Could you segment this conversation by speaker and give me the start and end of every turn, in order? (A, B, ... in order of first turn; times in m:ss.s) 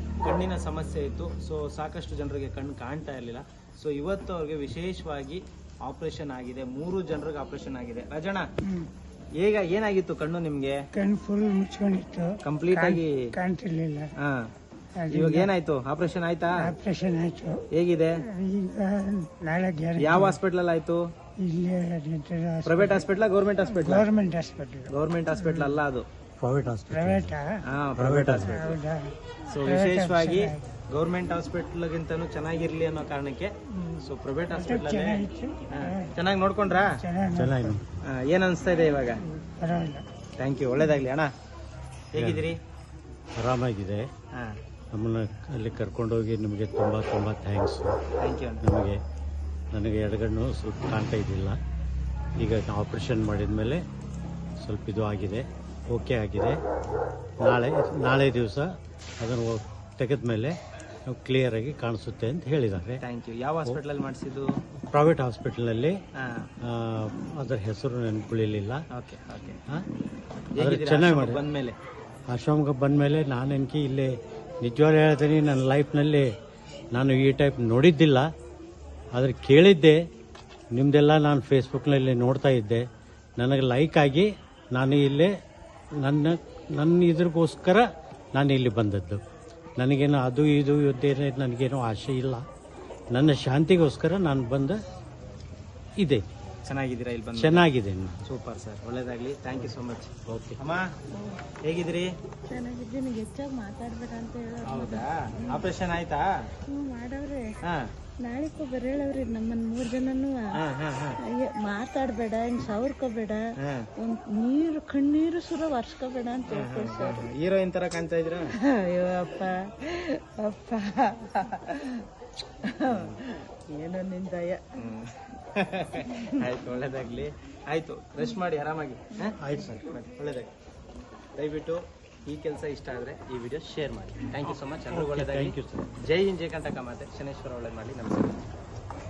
0:00.2-0:08.5 A
0:09.4-0:10.8 A
0:10.9-0:14.1 B
0:12.4-0:13.3 A
0:14.2-0:14.5 A
0:15.0-0:15.5 B
0:15.1-0:16.7 A
0:16.6-0:17.6 B
0:17.7-0:18.2 A
0:18.3-0:20.4 B
0:20.0-0:21.0 A
0:21.4-0:23.0 B
0:22.6-0:24.1 A
0:23.7-0:25.8 B
0:24.9-0:26.0 A
0:26.4-0:27.4 C
0:26.9-0:27.6 B
0:27.6-0:28.8 A
0:28.0-0:28.5 C
0:28.4-0:30.6 B
0:29.4-0:37.0 A
0:34.5-0:36.1 B
0:36.8-0:37.8 B
0:37.3-0:37.9 C
0:38.0-0:39.2 A
0:39.1-0:40.0 B
0:40.4-0:41.3 A
0:42.1-0:42.6 A
0:42.1-0:42.5 C
0:43.4-0:44.1 C
0:44.9-0:48.0 C
0:48.2-0:48.6 A
0:48.6-0:49.0 C
0:49.7-0:51.6 C
0:52.4-0:53.8 C
0:54.6-0:56.6 C
0:57.4-1:03.0 C
1:03.0-1:04.6 A
1:04.9-1:06.0 C
1:06.2-1:06.5 A
1:06.6-1:08.8 C
1:08.9-1:09.6 A
1:10.5-1:11.8 A
1:10.6-1:11.4 C
1:12.3-1:16.3 C
1:16.9-1:18.3 C
1:19.1-1:20.0 C
1:20.7-1:22.9 C
1:23.4-1:25.3 C
1:26.0-1:29.2 C
1:29.8-1:32.4 C
1:33.1-1:34.8 C
1:36.0-1:36.2 C
1:36.6-1:37.7 A
1:37.4-1:38.2 C
1:38.2-1:40.9 A
1:40.3-1:40.6 C
1:41.1-1:41.4 D
1:41.6-1:42.1 A
1:42.5-1:45.7 D
1:44.7-1:46.3 A
1:46.7-1:47.6 D
1:47.6-1:47.9 A
1:48.2-1:50.5 D
1:50.6-1:51.2 A
1:51.2-1:57.3 D
1:53.6-1:53.9 A
1:56.5-1:58.5 A
1:58.6-2:02.1 D
2:02.6-2:04.8 D
2:02.9-2:03.2 A
2:04.7-2:10.5 A
2:06.1-2:06.4 D
2:09.4-2:09.8 C
2:11.4-2:18.5 A
2:14.5-2:15.9 C